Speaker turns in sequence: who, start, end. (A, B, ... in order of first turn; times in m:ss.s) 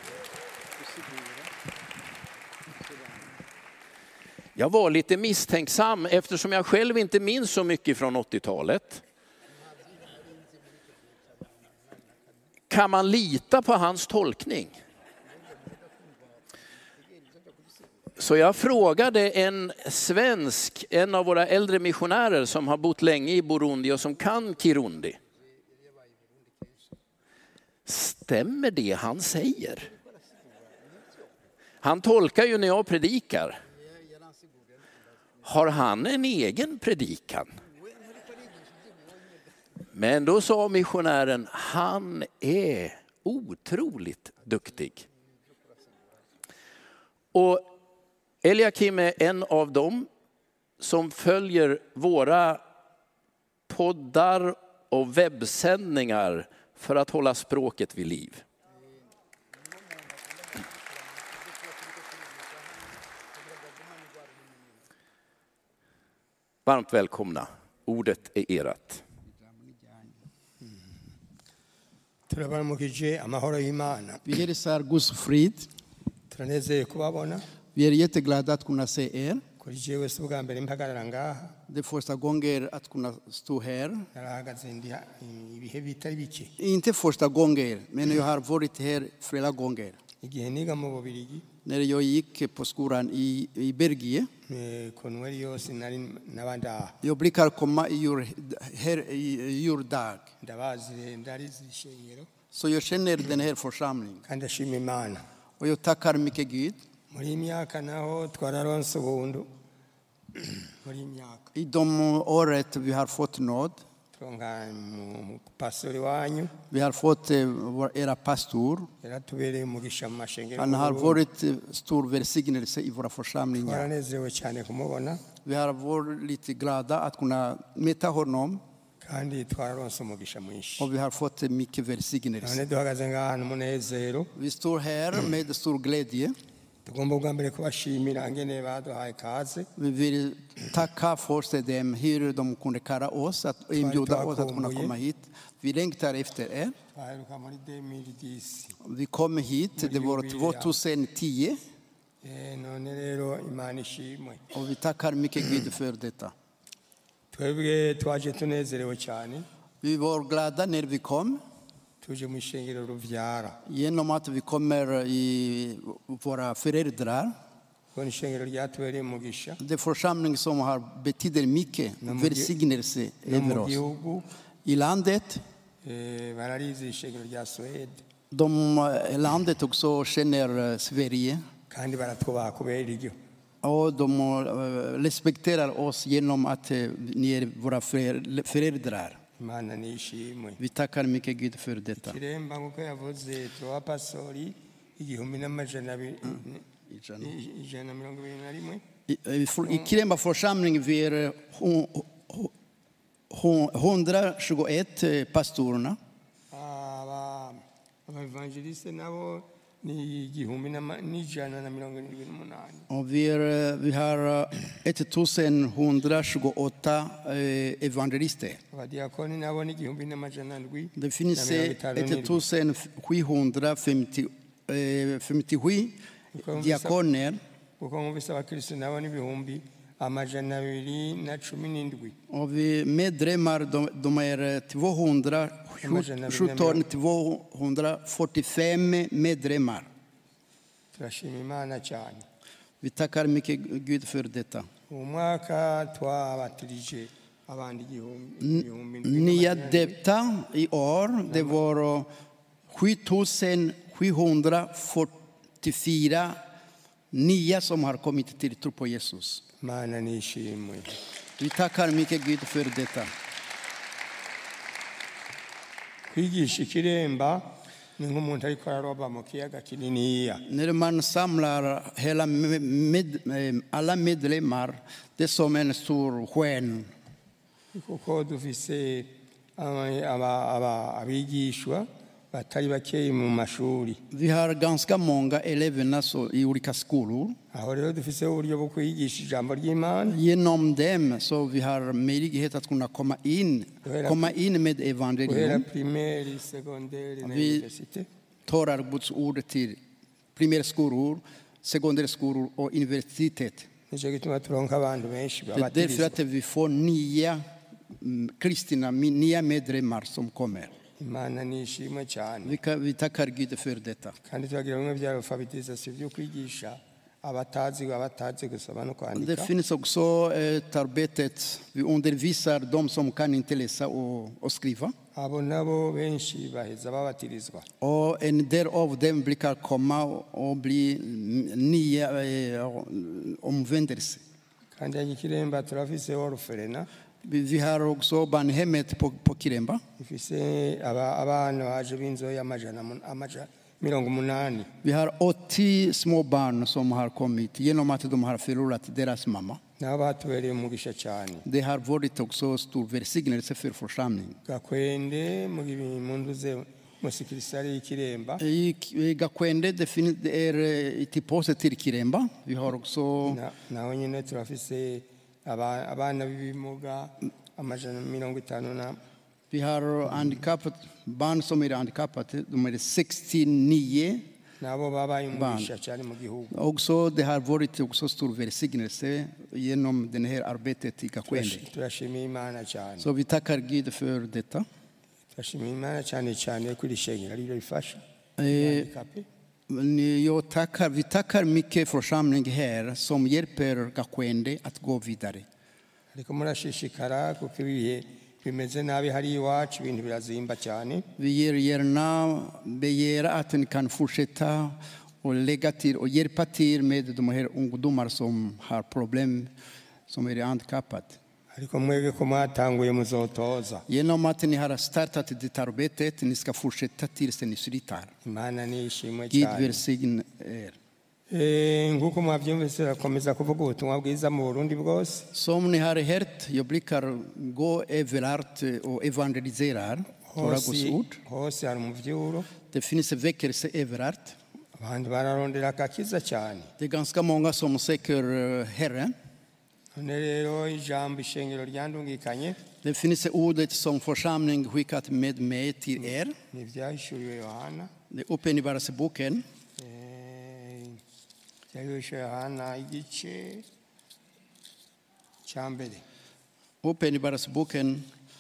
0:04.6-0:09.0 A
0:12.7-0:14.8 A
0:18.2-0:25.2 A
0:27.8-0:29.9 A
0:31.8-0:33.6 A
0:35.4-0:37.5 A
0:39.9-0:45.1 A
0:47.3-0:47.7 A
0:48.4-0:50.1 A
0:50.8-0:52.6 A
0:53.7-0:58.4 A
1:06.6-1:09.0 A
1:12.3-1:14.2 B
1:14.2-1:15.7 C
1:16.3-1:17.4 B
1:17.7-1:19.4 C
1:19.6-1:21.6 B
1:21.7-1:24.1 C
1:24.1-1:26.5 B
1:26.6-1:30.0 C
1:30.2-1:31.4 B
1:31.6-1:34.3 C
1:34.5-1:37.0 B
1:37.0-1:40.3 C
1:40.4-1:42.3 B
1:42.5-1:44.2 C
1:44.3-1:45.2 B
1:45.6-1:46.8 C
1:47.1-1:49.5 B
1:50.4-1:51.5 B
1:51.5-1:53.8 C
1:54.2-1:56.5 B
1:56.7-1:58.9 C
1:59.0-2:01.2 B
2:00.6-2:03.9 C
2:03.6-2:05.2 B
2:05.4-2:08.6 C
2:09.0-2:10.9 B
2:10.8-2:12.6 C
2:12.4-2:14.3 B
2:14.3-2:16.4 C
2:16.8-2:19.7 B
2:19.8-2:26.7 C
2:23.8-2:24.9 B
2:26.9-2:28.8 B
2:28.8-2:31.6 C
2:29.8-2:30.7 B
2:32.2-2:34.4 B
2:34.5-2:36.3 C
2:37.3-2:39.4 B
2:39.8-2:41.4 C
2:42.0-2:43.6 B
2:43.7-2:47.3 C
2:47.9-2:49.6 B
2:49.6-2:53.8 C
2:52.0-2:52.5 B
2:53.3-2:54.2 B
2:54.6-2:55.4 C
2:55.8-2:58.0 B
2:58.3-3:01.4 C
3:01.7-3:03.1 B
3:03.6-3:09.2 C
3:09.4-3:10.6 B
3:10.6-3:12.2 C
3:12.0-3:16.6 B
3:16.9-3:17.3 C
3:17.2-3:18.8 B
3:19.1-3:22.5 C
3:23.3-3:26.0 C
3:26.5-3:32.8 B
3:32.9-3:38.6 C
3:38.7-3:42.4 B
3:41.0-3:47.4 C
3:46.4-3:47.0 B
3:47.8-3:52.2 B
3:52.3-3:59.9 C
3:55.8-3:56.8 B
4:01.0-4:02.2 B
4:02.8-4:04.7 C
4:04.9-4:10.0 B
4:08.4-4:12.1 C
4:11.3-4:11.6 B
4:12.7-4:16.4 C
4:17.1-4:19.4 C
4:19.6-4:21.0 B
4:21.4-4:23.1 C
4:26.1-4:30.4 B
4:30.5-4:36.9 C
4:37.7-4:44.0 B
4:44.1-4:47.4 C
4:47.5-4:50.2 B
4:50.1-4:55.6 C
4:53.8-4:54.3 B
4:55.2-4:58.1 B
4:57.2-4:57.6 C
4:58.5-4:59.8 C
5:00.4-5:03.7 C
5:03.9-5:06.2 B
5:05.5-5:10.7 C
5:11.0-5:12.6 B
5:12.4-5:14.2 C
5:14.3-5:19.5 B
5:19.2-5:24.9 C
5:25.1-5:27.6 B
5:27.8-5:34.2 C
5:34.8-5:36.9 B
5:37.2-5:39.8 C
5:40.0-5:44.7 B
5:44.8-5:49.6 C
5:49.8-5:51.4 B
5:51.4-5:54.4 C
5:54.4-5:58.4 B
5:58.4-6:03.4 C
6:03.2-6:09.0 B
6:09.5-6:14.3 C
6:14.6-6:16.5 B
6:15.3-6:15.7 C
6:16.5-6:21.6 C
6:21.3-6:23.1 B
6:23.0-6:24.7 C
6:25.4-6:29.2 B
6:28.4-6:28.9 C
6:29.7-6:35.4 C
6:36.1-6:41.0 B
6:41.2-6:49.5 C
6:50.1-6:51.2 C
6:51.5-6:53.8 B
6:53.9-6:58.1 C
6:58.2-6:59.8 B
6:59.3-7:00.8 C
7:01.3-7:05.3 B
7:05.3-7:11.2 C
7:10.3-7:12.5 B
7:12.7-7:14.4 C
7:14.8-7:16.7 B
7:16.8-7:19.1 C
7:19.9-7:22.6 B
7:22.8-7:26.4 C
7:26.5-7:27.9 B
7:28.1-7:29.4 C
7:29.8-7:31.0 B
7:31.7-7:33.6 B
7:35.4-7:36.0 B
7:36.8-7:38.1 C